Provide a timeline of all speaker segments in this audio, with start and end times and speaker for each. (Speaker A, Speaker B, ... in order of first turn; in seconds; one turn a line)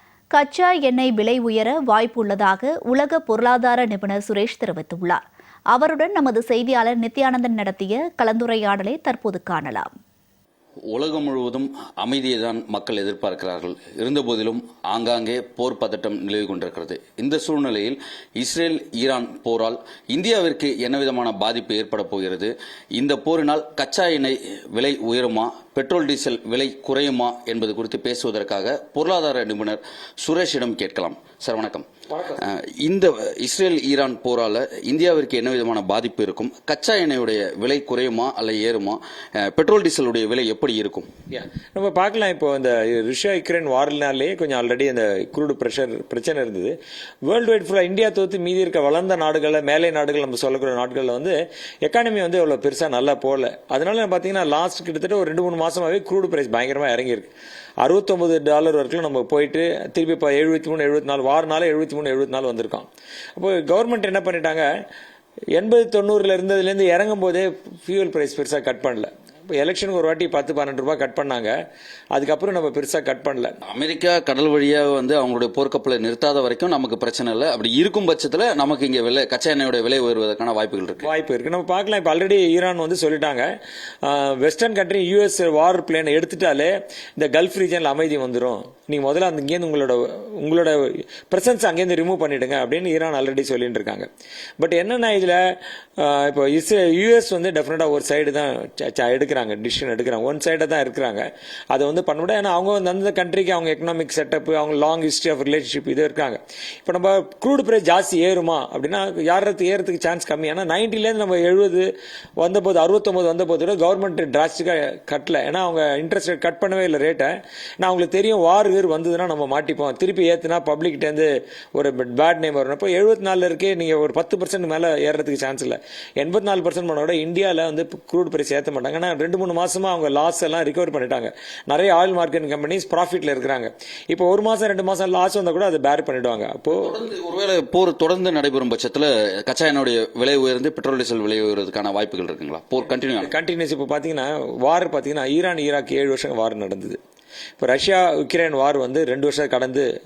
Speaker A: 0.3-5.2
Speaker A: 5.7-9.9
Speaker B: 10.9-41.1
Speaker C: 32.1-32.4
Speaker C: 41.3-64.7
Speaker C: 65.6-71.6
Speaker C: 72.1-73.6
Speaker B: 73.7-81.0
Speaker C: 81.0-83.5
Speaker C: 84.0-137.0
Speaker B: 136.7-143.3
Speaker C: 143.2-147.0
Speaker C: 147.6-149.9